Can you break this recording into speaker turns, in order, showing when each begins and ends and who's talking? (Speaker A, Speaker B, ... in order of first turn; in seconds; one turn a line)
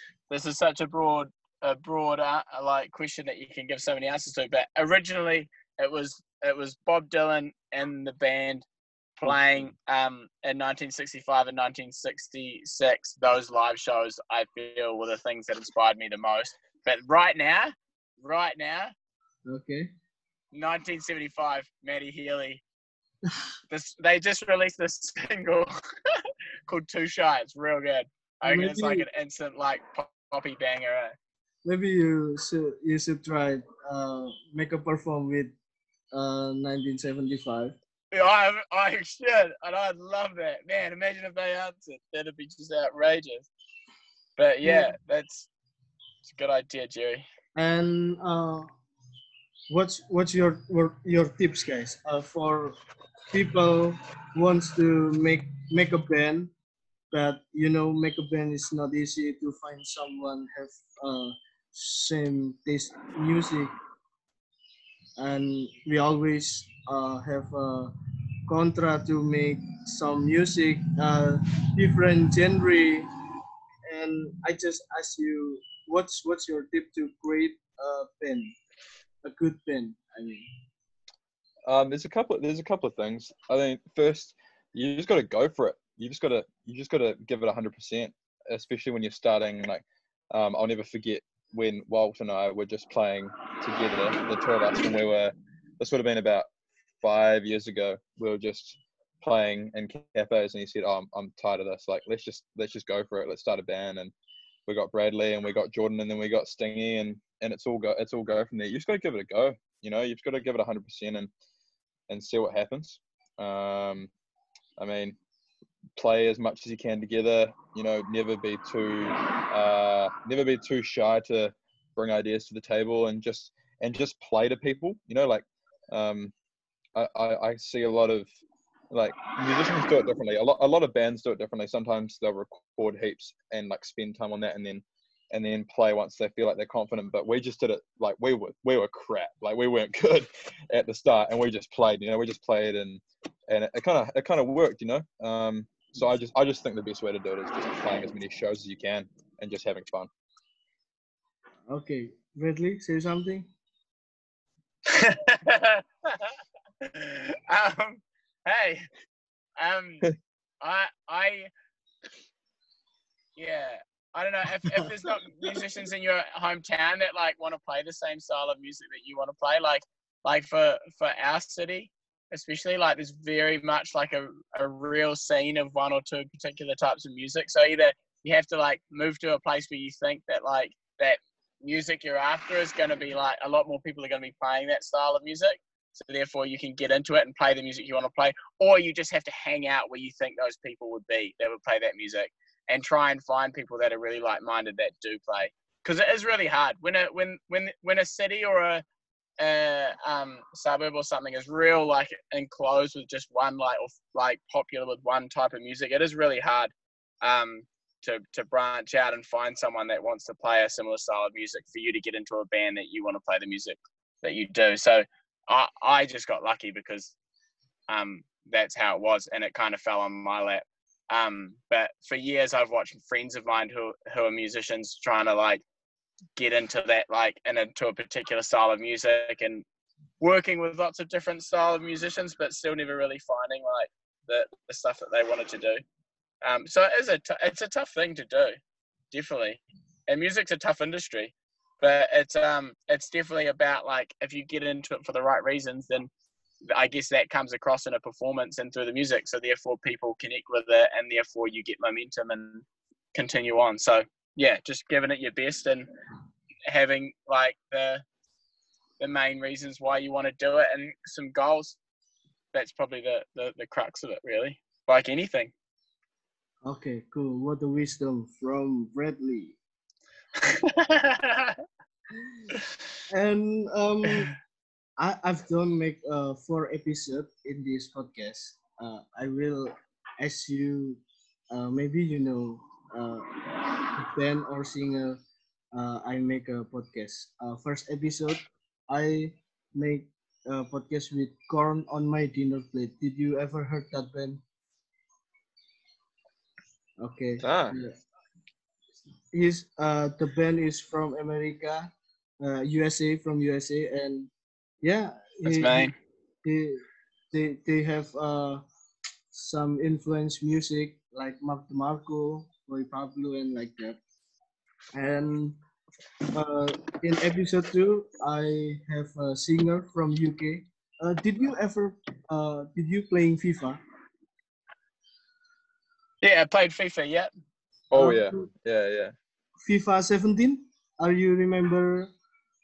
Speaker A: 0.3-8.6
Speaker A: 9.2-18.9
Speaker B: 19.4-19.9
Speaker A: 20.5-22.6
Speaker A: 23.7-25.7
Speaker A: 26.7-31.1
Speaker B: 28.4-29.1
Speaker B: 31.6-35.5
Speaker B: 36.1-37.8
Speaker A: 38.1-43.5
Speaker A: 44.4-45.5
Speaker B: 44.6-44.9
Speaker A: 46.2-47.2
Speaker B: 47.5-48.7
Speaker B: 49.7-52.8
Speaker B: 53.3-56.5
Speaker B: 57.1-63.8
Speaker B: 65.2-67.9
Speaker B: 68.5-73.1
Speaker B: 73.9-78.5
Speaker B: 79.2-80.5
Speaker C: 81.7-96.5
Speaker C: 97.0-104.1
Speaker C: 104.7-111.3
Speaker C: 112.1-114.1
Speaker C: 114.8-115.2
Speaker C: 116.0-126.3
Speaker C: 126.9-128.3
Speaker C: 128.9-150.1
Speaker B: 151.7-153.5
Speaker A: 154.8-156.3
Speaker A: 156.8-158.9
Speaker A: 159.6-160.1
Speaker A: 160.6-161.5
Speaker A: 163.3-198.8
Speaker A: 199.4-217.1
Speaker A: 217.9-225.6
Speaker A: 226.3-229.6
Speaker A: 230.2-235.8
Speaker A: 236.4-238.6
Speaker A: 239.1-246.1
Speaker A: 246.7-255.9
Speaker A: 256.7-258.0
Speaker A: 259.0-261.8
Speaker A: 262.5-265.5
Speaker B: 266.6-269.6
Speaker A: 270.5-271.6
Speaker B: 273.1-274.3
Speaker B: 275.0-283.3
Speaker B: 283.9-285.2
Speaker B: 285.7-294.4
Speaker B: 297.0-297.9
Speaker C: 297.4-297.8
Speaker B: 299.3-304.3
Speaker B: 304.8-305.9
Speaker A: 305.4-305.9
Speaker B: 306.4-308.6
Speaker B: 309.3-314.0
Speaker B: 314.9-315.6
Speaker B: 316.3-323.8
Speaker A: 326.2-327.3
Speaker C: 327.9-329.1
Speaker B: 327.9-328.5
Speaker B: 329.6-332.1